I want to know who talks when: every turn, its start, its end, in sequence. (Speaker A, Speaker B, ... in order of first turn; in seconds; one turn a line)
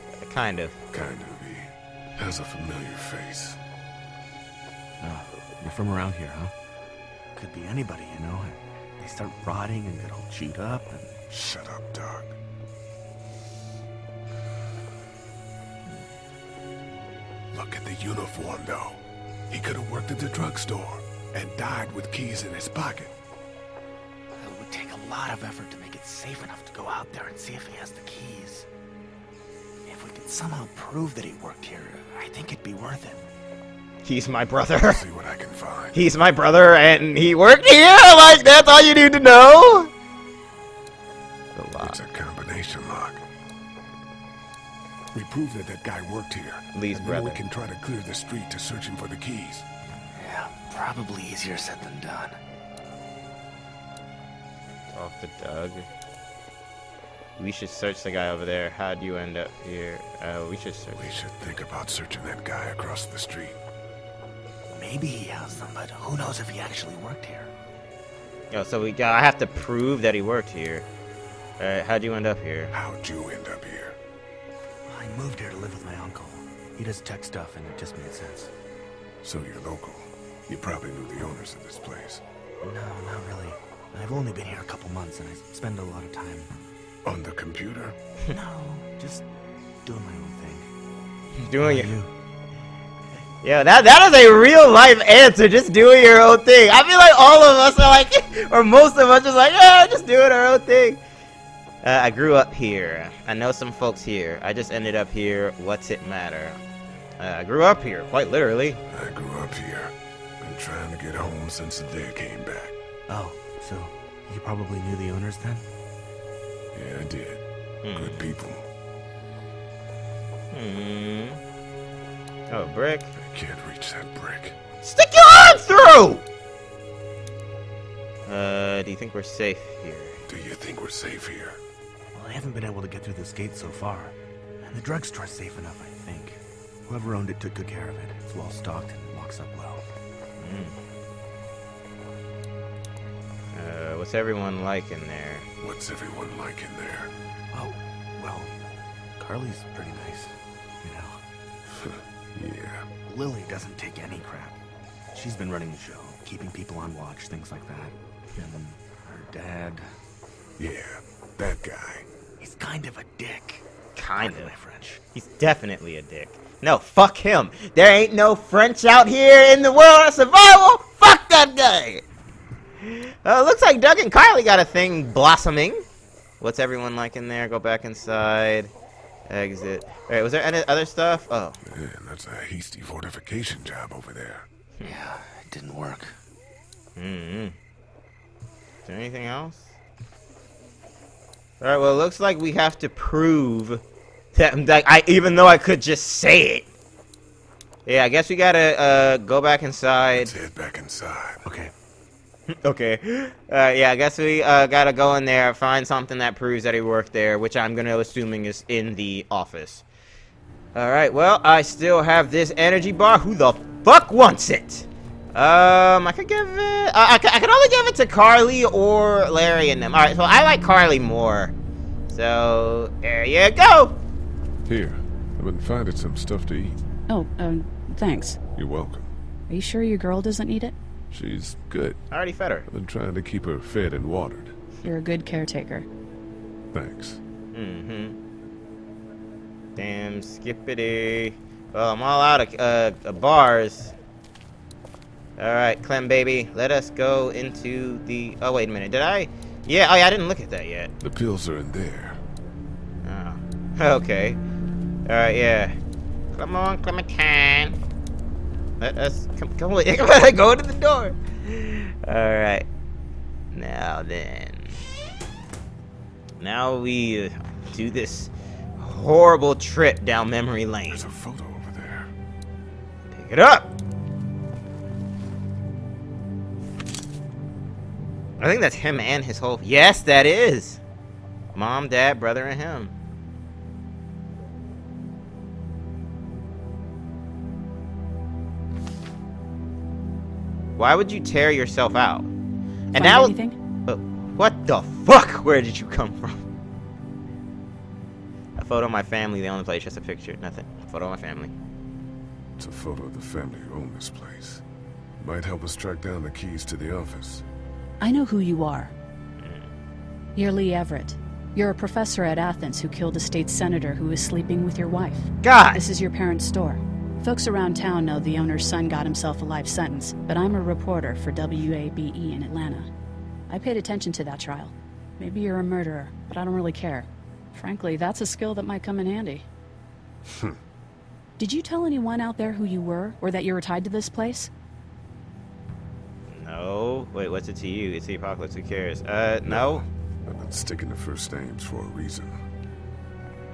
Speaker A: 0.2-0.8
Speaker B: 0.9-3.6
Speaker C: 5.0-6.5
Speaker C: 7.3-11.1
Speaker B: 11.3-12.4
Speaker B: 17.5-23.1
Speaker C: 24.4-28.7
Speaker C: 29.9-33.2
Speaker A: 34.0-35.0
Speaker B: 34.9-36.0
Speaker A: 35.9-39.9
Speaker A: 41.6-42.0
Speaker B: 41.8-43.2
Speaker B: 45.1-49.6
Speaker A: 46.7-47.4
Speaker C: 50.1-52.4
Speaker A: 54.9-55.9
Speaker A: 57.4-61.1
Speaker B: 60.9-63.6
Speaker C: 64.7-67.5
Speaker A: 68.5-70.9
Speaker A: 71.6-72.7
Speaker B: 72.7-74.0
Speaker C: 74.9-78.5
Speaker B: 79.2-82.2
Speaker C: 82.6-86.5
Speaker B: 87.0-88.0
Speaker C: 88.3-89.3
Speaker C: 89.8-90.7
Speaker A: 91.4-91.9
Speaker C: 91.6-92.1
Speaker A: 93.4-101.0
Speaker A: 101.8-106.6
Speaker A: 107.2-108.8
Speaker B: 108.9-112.8
Speaker C: 113.1-115.6
Speaker B: 116.7-117.4
Speaker A: 117.8-118.2
Speaker B: 117.9-118.7
Speaker A: 120.5-121.4
Speaker A: 122.5-123.1
Speaker B: 123.2-124.6
Speaker A: 124.8-126.2
Speaker A: 128.3-130.2
Speaker B: 130.3-131.6
Speaker C: 132.1-139.8
Speaker A: 140.4-140.8
Speaker A: 143.5-145.5
Speaker B: 145.6-147.1
Speaker C: 147.5-148.5
Speaker C: 149.2-151.2
Speaker B: 151.7-152.9
Speaker C: 153.1-154.6
Speaker C: 155.1-159.9
Speaker B: 160.6-162.1
Speaker C: 162.4-163.6
Speaker A: 164.0-164.5
Speaker C: 164.2-165.0
Speaker A: 165.2-172.0
Speaker A: 173.2-175.8
Speaker A: 176.4-178.7
Speaker A: 179.3-181.6
Speaker B: 181.6-184.5
Speaker C: 184.8-186.2
Speaker A: 187.0-187.6
Speaker A: 188.9-189.7
Speaker A: 191.6-193.8
Speaker A: 194.3-196.7
Speaker A: 197.9-200.3
Speaker B: 200.1-201.4
Speaker C: 201.4-201.7
Speaker A: 202.5-209.8
Speaker A: 210.8-221.5
Speaker A: 222.1-224.0
Speaker B: 224.7-226.8
Speaker D: 227.1-228.4
Speaker B: 228.6-229.1
Speaker D: 229.5-230.8
Speaker B: 231.1-232.0
Speaker A: 232.1-232.7
Speaker B: 232.7-234.6
Speaker D: 234.8-235.9
Speaker B: 236.7-237.2
Speaker A: 237.5-238.2
Speaker A: 239.8-243.9
Speaker A: 245.4-250.9
Speaker B: 251.0-252.2
Speaker A: 253.0-254.4
Speaker A: 255.1-255.8
Speaker A: 256.3-257.8
Speaker A: 258.8-262.7
Speaker A: 263.5-264.7
Speaker A: 266.4-271.1
Speaker B: 270.9-272.1
Speaker A: 273.1-273.7
Speaker A: 278.4-280.8
Speaker A: 281.5-282.9
Speaker A: 290.8-292.3
Speaker D: 292.9-293.6
Speaker A: 292.9-296.4
Speaker A: 298.6-301.5
Speaker B: 302.6-304.6
Speaker B: 305.2-307.4
Speaker D: 308.0-308.9
Speaker A: 309.4-309.7
Speaker D: 310.4-322.9
Speaker A: 315.4-315.8
Speaker D: 323.5-329.4
Speaker B: 330.2-330.6
Speaker D: 331.4-334.5
Speaker A: 336.3-339.8
Speaker B: 339.4-342.4